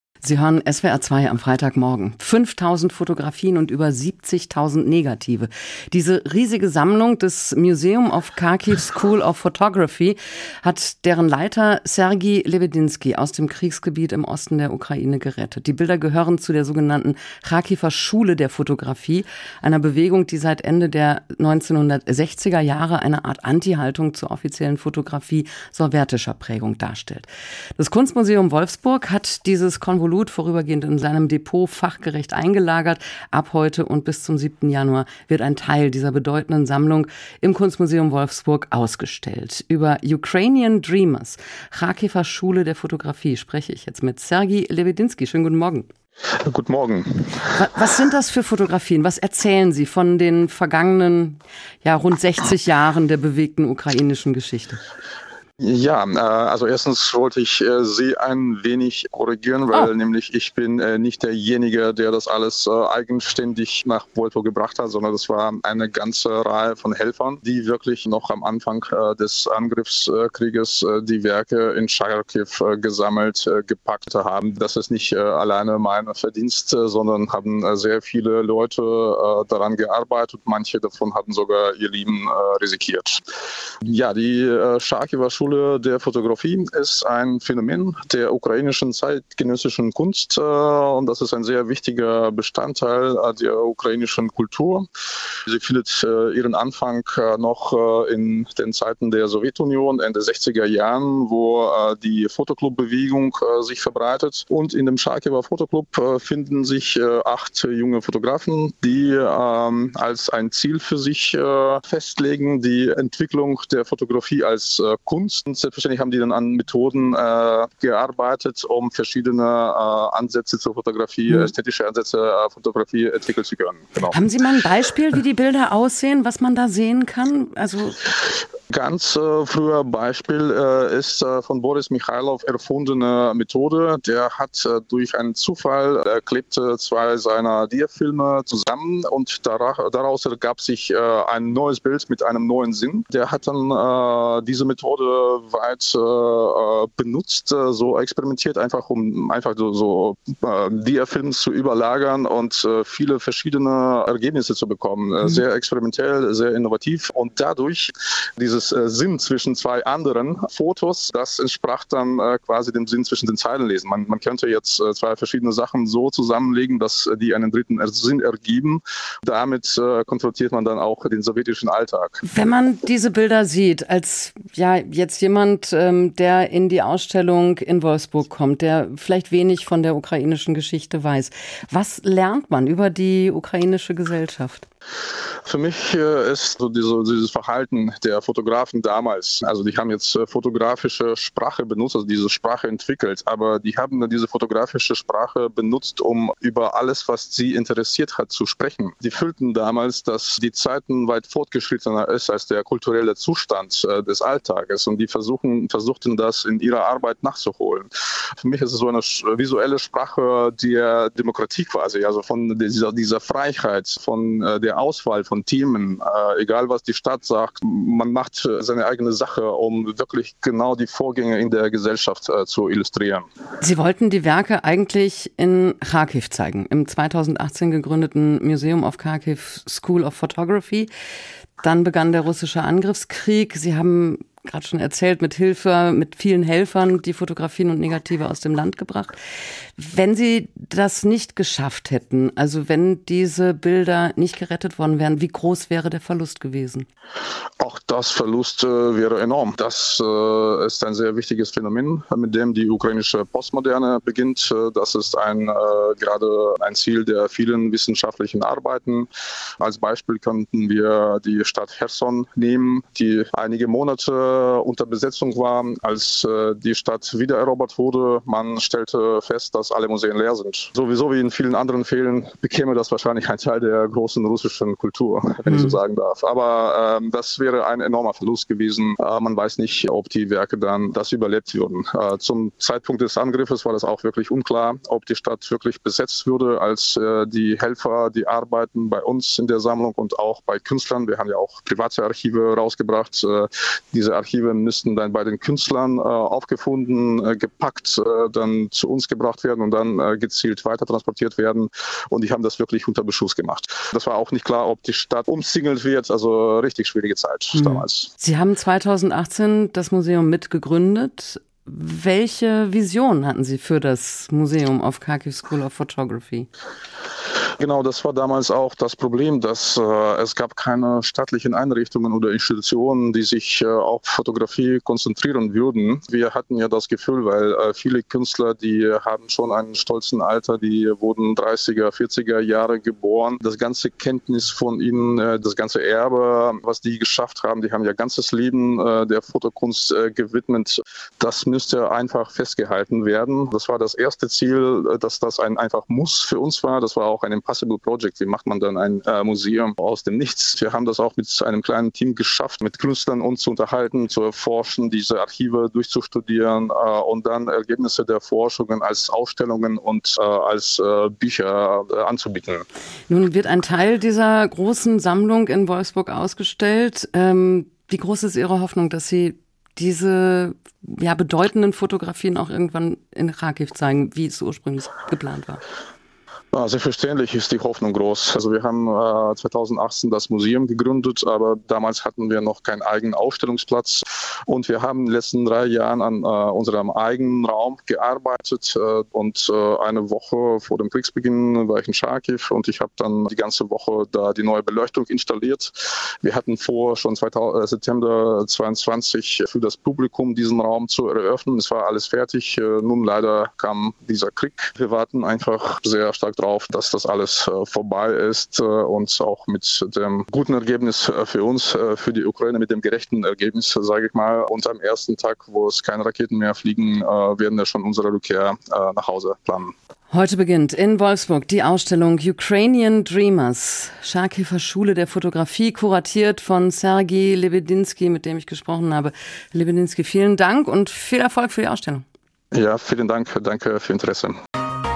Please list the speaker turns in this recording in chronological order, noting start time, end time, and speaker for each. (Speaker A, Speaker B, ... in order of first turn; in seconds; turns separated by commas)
Speaker A: 0.2-45.9, Speaker B: 46.4-47.6, Speaker A: 47.5-54.8, Speaker B: 55.6-83.2, Speaker B: 83.8-94.9, Speaker B: 95.5-124.2, Speaker A: 124.0-128.1, Speaker B: 128.7-172.2, Speaker A: 172.2-184.6, Speaker B: 185.4-223.2, Speaker A: 223.6-230.9, Speaker A: 231.6-239.2, Speaker A: 239.8-246.9, Speaker B: 247.6-308.1, Speaker A: 307.5-316.5, Speaker B: 317.6-362.7, Speaker A: 363.1-375.6, Speaker B: 376.5-419.7, Speaker A: 420.1-432.0, Speaker B: 432.5-434.3